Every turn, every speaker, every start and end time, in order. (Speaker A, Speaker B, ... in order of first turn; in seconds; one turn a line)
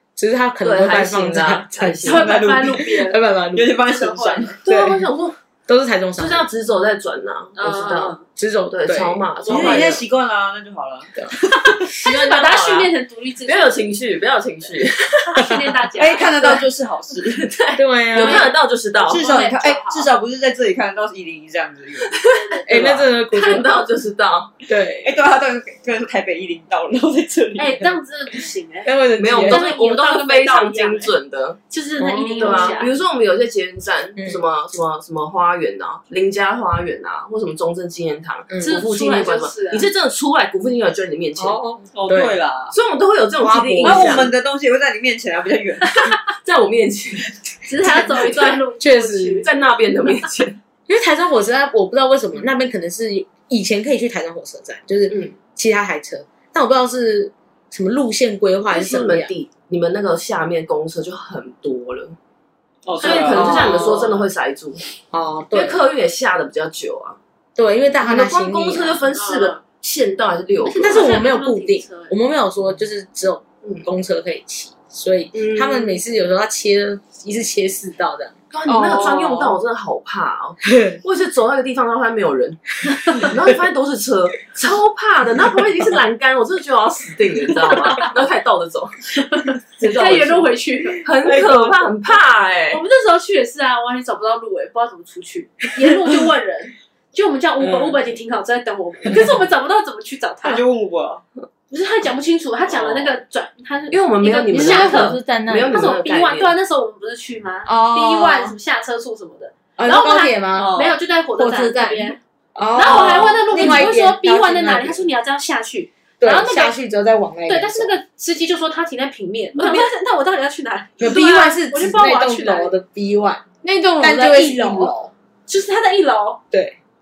Speaker A: 0.2-3.8
Speaker B: 0.6-2.3
Speaker C: 2.0-3.2
Speaker D: 2.1-2.9
Speaker D: 3.5-4.6
Speaker C: 3.9-4.6
Speaker B: 4.7-5.4
Speaker A: 4.7-5.0
Speaker A: 5.7-6.5
Speaker B: 6.2-8.2
Speaker C: 7.6-8.2
Speaker A: 7.8-9.8
Speaker B: 8.7-10.1
Speaker C: 9.4-9.9
Speaker D: 9.5-11.1
Speaker C: 11.7-13.9
Speaker B: 11.9-12.9
Speaker B: 13.4-15.6
Speaker C: 15.2-16.6
Speaker D: 16.0-17.5
Speaker B: 17.4-19.2
Speaker A: 17.8-18.5
Speaker C: 18.1-20.1
Speaker D: 19.1-23.0
Speaker B: 22.2-24.5
Speaker C: 22.3-23.9
Speaker A: 22.7-23.8
Speaker A: 24.7-25.2
Speaker D: 25.0-27.9
Speaker C: 27.6-31.1
Speaker A: 28.9-29.7
Speaker B: 29.2-31.6
Speaker C: 31.7-32.9
Speaker A: 32.0-32.8
Speaker B: 32.4-41.6
Speaker A: 34.2-34.4
Speaker A: 38.5-38.8
Speaker C: 38.6-39.9
Speaker A: 41.4-42.4
Speaker D: 41.9-42.7
Speaker B: 42.7-44.3
Speaker A: 43.4-44.3
Speaker D: 43.8-45.9
Speaker B: 46.1-47.3
Speaker C: 47.7-49.5
Speaker B: 47.9-48.5
Speaker A: 48.0-49.5
Speaker B: 49.4-50.6
Speaker A: 50.9-59.3
Speaker B: 55.1-55.4
Speaker B: 58.7-62.2
Speaker D: 62.9-64.1
Speaker B: 63.0-64.8
Speaker A: 63.0-64.1
Speaker C: 63.4-63.8
Speaker A: 65.1-65.8
Speaker B: 65.5-67.2
Speaker A: 67.6-69.0
Speaker B: 68.0-71.2
Speaker C: 69.1-69.6
Speaker C: 70.6-72.2
Speaker A: 70.8-78.4
Speaker B: 75.3-75.9
Speaker B: 78.5-89.2
Speaker E: 78.7-79.5
Speaker A: 80.7-81.0
Speaker C: 89.4-91.0
Speaker B: 89.8-92.8
Speaker A: 91.2-91.8
Speaker C: 92.7-100.6
Speaker A: 97.6-98.0
Speaker D: 100.4-101.2
Speaker C: 101.7-112.2
Speaker B: 102.7-103.1
Speaker B: 103.9-106.5
Speaker E: 104.5-105.9
Speaker E: 107.7-108.6
Speaker A: 109.8-110.7
Speaker D: 110.5-111.0
Speaker E: 111.3-112.2
Speaker A: 112.5-115.0
Speaker C: 112.8-116.8
Speaker D: 113.5-113.9
Speaker A: 116.2-117.9
Speaker C: 117.5-122.8
Speaker A: 121.0-123.5
Speaker E: 123.6-124.9
Speaker A: 124.0-125.1
Speaker C: 125.5-126.4
Speaker A: 126.5-126.8